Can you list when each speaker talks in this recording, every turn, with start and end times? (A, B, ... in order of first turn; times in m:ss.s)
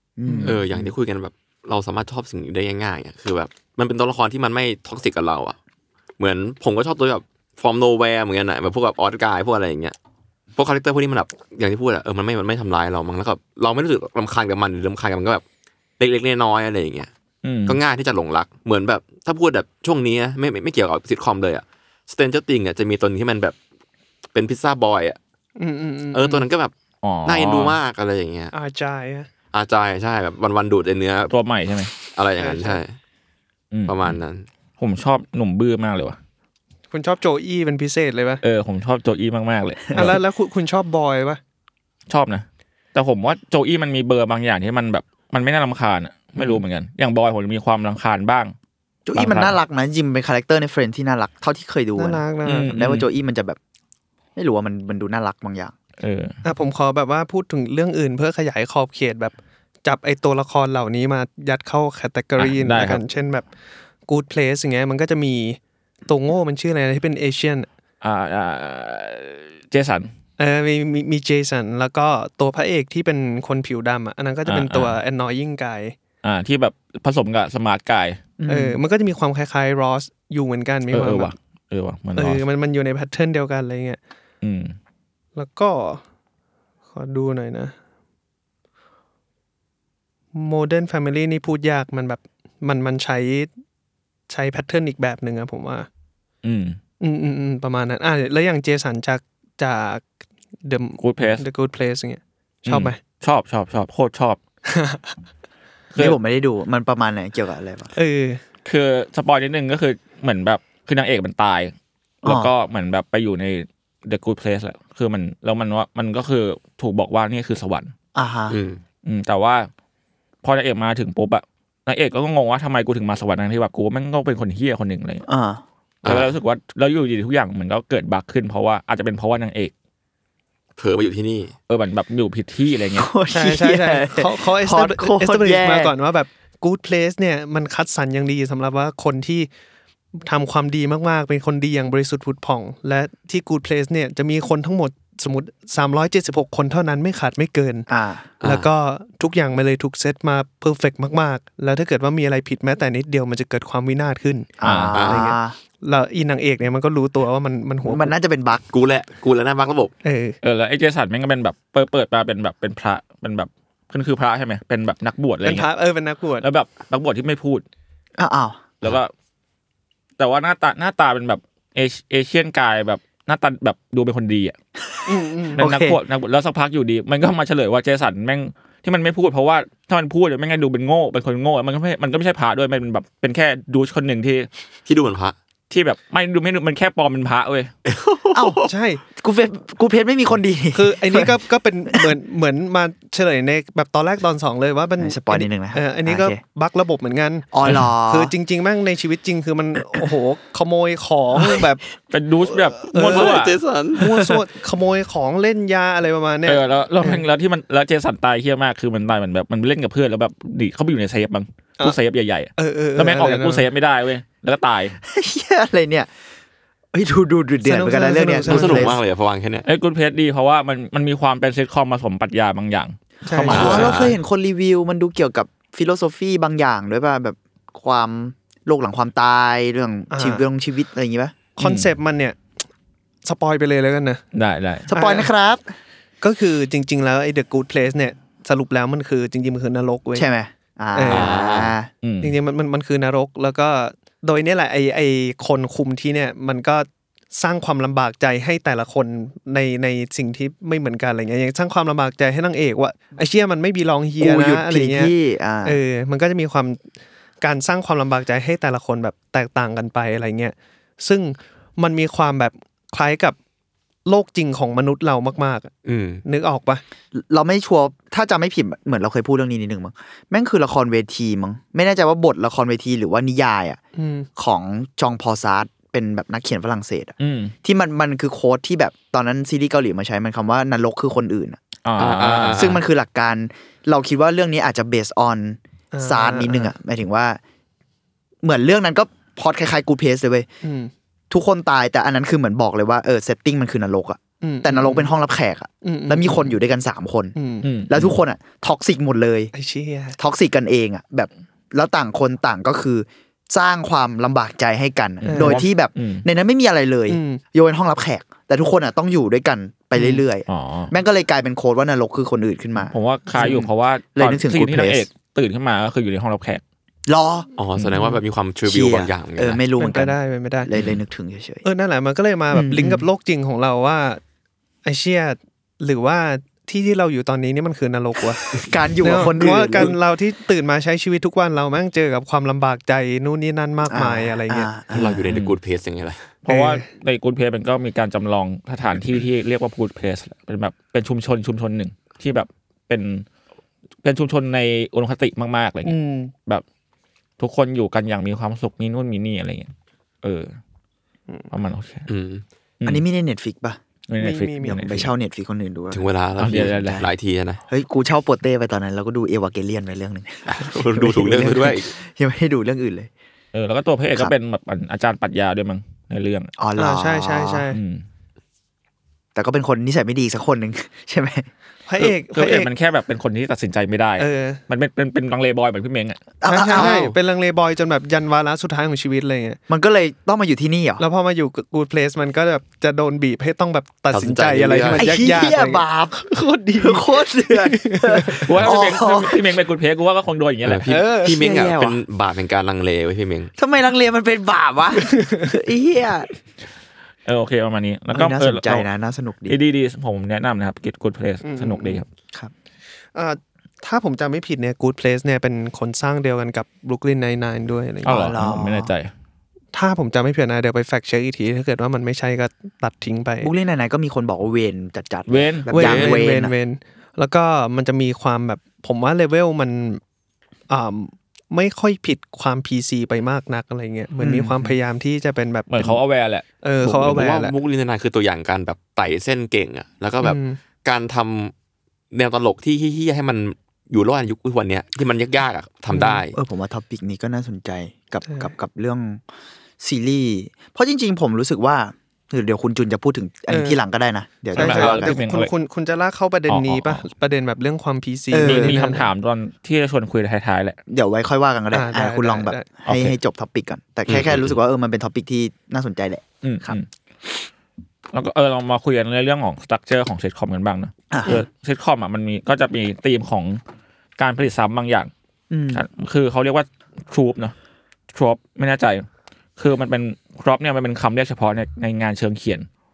0:00.2-0:00.8 A
0:00.3-0:00.6 B
0:00.4-0:05.6 C
0:06.2-0:10.0 C
0:10.6-0:15.4 C
0:16.0-0:17.1 C
0:17.4-0:17.8 D
0:17.7-0:23.6 C
0:24.3-0:25.2 C
0:25.6-0:26.5 B
0:26.1-0:26.7 C
0:27.0-0:27.8 D
0:27.3-0:28.5 C
0:28.5-0:29.3 B
0:29.5-0:31.3 C
0:31.3-0:31.9 D
0:32.1-0:33.0 C
0:32.4-0:32.8 B
0:33.7-0:34.2 D
0:33.9-0:34.5 C
0:34.8-0:36.2 D
0:36.9-0:38.4 B
0:38.4-0:40.2 D
0:39.9-0:41.4 B
0:42.1-0:48.5 D
0:49.1-0:53.6 A
0:49.2-0:49.6 D
0:52.0-0:52.8 B
0:52.4-0:53.1 D
0:54.4-0:55.7 A
0:56.0-0:56.4 D
0:56.4-1:03.5 B
1:02.4-1:03.0 D
1:04.1-1:07.7 B
1:08.0-1:10.1 D
1:10.4-1:16.0 B
1:14.5-1:15.0 D
1:16.2-1:18.2 D
1:18.4-1:18.8 A
1:18.5-1:21.3 B
1:20.9-1:22.4 D
1:22.2-1:24.0 B
1:24.4-1:24.8 D
1:25.4-1:26.0 B
1:26.9-1:27.7 B
1:30.3-1:33.5 B
1:34.3-1:35.9 B
1:36.4-1:36.8 D
1:37.0-1:40.0 B
1:40.6-1:43.0 B
1:41.0-1:41.4 D
1:42.7-1:44.4 D
1:44.7-1:45.2 B
1:45.9-1:46.2 D
1:46.0-1:47.9 A
1:48.0-1:48.4 B
1:48.6-1:57.9 D
1:52.2-1:52.5 A
1:58.2-1:58.6 A
1:58.5-1:58.8 C
1:59.0-1:59.7 D
2:00.4-2:05.2 D
2:05.3-2:05.6 A
2:06.0-2:06.3 C
2:06.0-2:09.7 D
2:10.8-2:11.5 C
2:11.7-2:13.1 D
2:13.0-2:15.9 A
2:13.3-2:19.5 B
2:20.2-2:27.9 B
2:27.9-2:28.3 A
2:28.4-2:28.7 C
2:28.4-2:38.1 B
2:34.6-2:35.6 A
2:34.6-2:35.0 D
2:34.9-2:35.3 C
2:37.8-2:38.6 A
2:38.7-2:39.9 C
2:40.0-2:40.4 B
2:40.4-2:45.7 D
2:45.4-2:46.4 B
2:46.4-2:47.6 D
2:48.2-2:48.6 A
2:48.8-2:49.1 D
2:50.2-2:54.6 D
2:54.8-2:56.0 A
2:55.1-2:55.6 B
2:55.6-3:04.5 D
3:04.9-3:05.4 C
3:05.7-3:07.7 D
3:07.9-3:08.7 C
3:08.3-3:11.4 A
3:08.7-3:09.0 B
3:10.7-3:21.8 B
3:15.0-3:16.4 A
3:17.5-3:18.3 A
3:21.3-3:21.7 A
3:22.1-3:23.6 D
3:22.9-3:23.4 B
3:23.0-3:24.1 C
3:23.9-3:27.2 B
3:26.5-3:35.0 D
3:32.6-3:33.7 B
3:35.0-3:36.1 A
3:36.9-3:39.0 A
3:37.6-3:39.0 B
3:38.5-3:39.7 C
3:39.6-3:44.0 D
3:43.2-3:44.1 B
3:43.4-3:51.4 A
3:43.5-3:44.1 C
3:50.1-3:50.4 B
3:51.6-3:52.4 B
3:51.6-3:51.9 D
3:53.2-3:54.2 B
3:54.3-3:54.9 D
3:54.9-3:55.7 A
3:54.9-3:55.3 B
3:56.2-4:00.3 B
4:00.1-4:01.9 A
4:01.0-4:01.4 B
4:01.1-4:01.7 C
4:02.0-4:02.4 D
4:02.2-4:15.1 B
4:14.2-4:15.8 A
4:15.6-4:16.8 B
4:17.4-4:23.4 B
4:24.1-4:25.7 B
4:25.8-4:26.2 C
4:26.2-4:26.8 B
4:27.1-4:33.8 A
4:34.0-4:34.3 B
4:34.4-4:41.6 A
4:37.2-4:37.6 D
4:41.8-4:42.8 D
4:42.0-4:42.8 C
4:42.5-4:47.4 A
4:45.9-4:46.7 B
4:48.4-4:50.5 A
4:50.6-4:50.9 B
4:51.3-4:57.4 A
4:54.4-4:55.1 B
4:55.8-4:56.6 B
4:57.4-4:57.7 B
4:57.6-4:58.1 D
4:57.9-4:59.5 A
4:59.5-5:00.2 B
5:00.2-5:15.1 A
5:05.2-5:06.2 D
5:05.3-5:05.6 B
5:07.1-5:07.4 B
5:10.0-5:10.2 B
5:10.5-5:10.9 D
5:12.9-5:16.6 D
5:17.1-5:17.5 A
5:17.6-5:19.6 C
5:18.6-5:21.6 A
5:19.8-5:20.7 B
5:21.6-5:24.2 B
5:22.5-5:23.1 A
5:24.8-5:28.5 B
5:28.6-5:30.0 A
5:29.0-5:34.7 B
5:33.9-5:35.3 A
5:34.9-5:36.3 C
5:35.3-5:35.6 D
5:36.4-5:43.2 D
5:36.5-5:36.9 B
5:44.0-5:46.6 D
5:45.8-5:46.3 B
5:47.4-5:49.7 D
5:50.2-5:50.5 D
5:51.5-5:52.1 D
5:52.1-5:52.4 C
5:52.8-5:53.8 A
5:54.1-5:55.1 D
5:54.2-5:54.8 B
5:54.6-5:57.0 A
5:55.9-5:57.6 C
5:56.4-5:57.0 D
5:57.7-6:03.1 A
6:00.5-6:01.9 C
6:03.5-6:06.5 D
6:06.6-6:07.7 A
6:06.8-6:07.8 B
6:07.7-6:08.0 D
6:09.4-6:11.5 A
6:11.9-6:12.7 B
6:12.0-6:16.2 D
6:14.2-6:14.6 B
6:16.4-6:17.0 A
6:16.5-6:19.6 B
6:16.7-6:17.2 C
6:19.7-6:21.0 A
6:21.0-6:28.5 B
6:24.1-6:25.1 C
6:24.9-6:29.4 A
6:28.4-6:30.9 D
6:30.6-6:33.5 C
6:30.9-6:31.4 B
6:31.2-6:32.0 A
6:33.6-6:36.3 A
6:35.0-6:35.5 B
6:37.3-6:38.9 D
6:38.1-6:39.6 A
6:39.5-6:42.1 D
6:41.4-6:42.0 B
6:43.2-6:48.3 B
6:48.0-6:48.9 A
6:48.0-6:49.1 D
6:49.7-6:53.5 B
6:53.4-6:56.5 A
6:55.3-6:55.8 D
6:55.7-7:00.0 B
6:55.8-6:56.2 C
7:00.7-7:06.0 B
7:04.2-7:04.8 A
7:05.7-7:07.2 D
7:06.6-7:07.5 B
7:07.0-7:11.5 C
7:10.2-7:10.6 B
7:12.1-7:16.4 C
7:15.9-7:16.2 B
7:16.3-7:19.2 A
7:18.3-7:18.5 B
7:19.8-7:25.2 A
7:23.5-7:23.8 B
7:24.5-7:29.1 B
7:24.6-7:25.5 D
7:26.5-7:27.1 D
7:28.3-7:29.0 A
7:28.4-7:30.8 D
7:30.9-7:36.8 A
7:31.7-7:32.6 B
7:32.8-7:33.2 D
7:34.1-7:34.6 C
7:36.4-7:36.9 D
7:38.1-7:43.6 D
7:41.1-7:41.4 A
7:44.2-7:45.1 D
7:45.5-7:45.8 A
7:45.7-7:47.5 D
7:48.1-7:49.1 D
7:49.6-7:52.7 D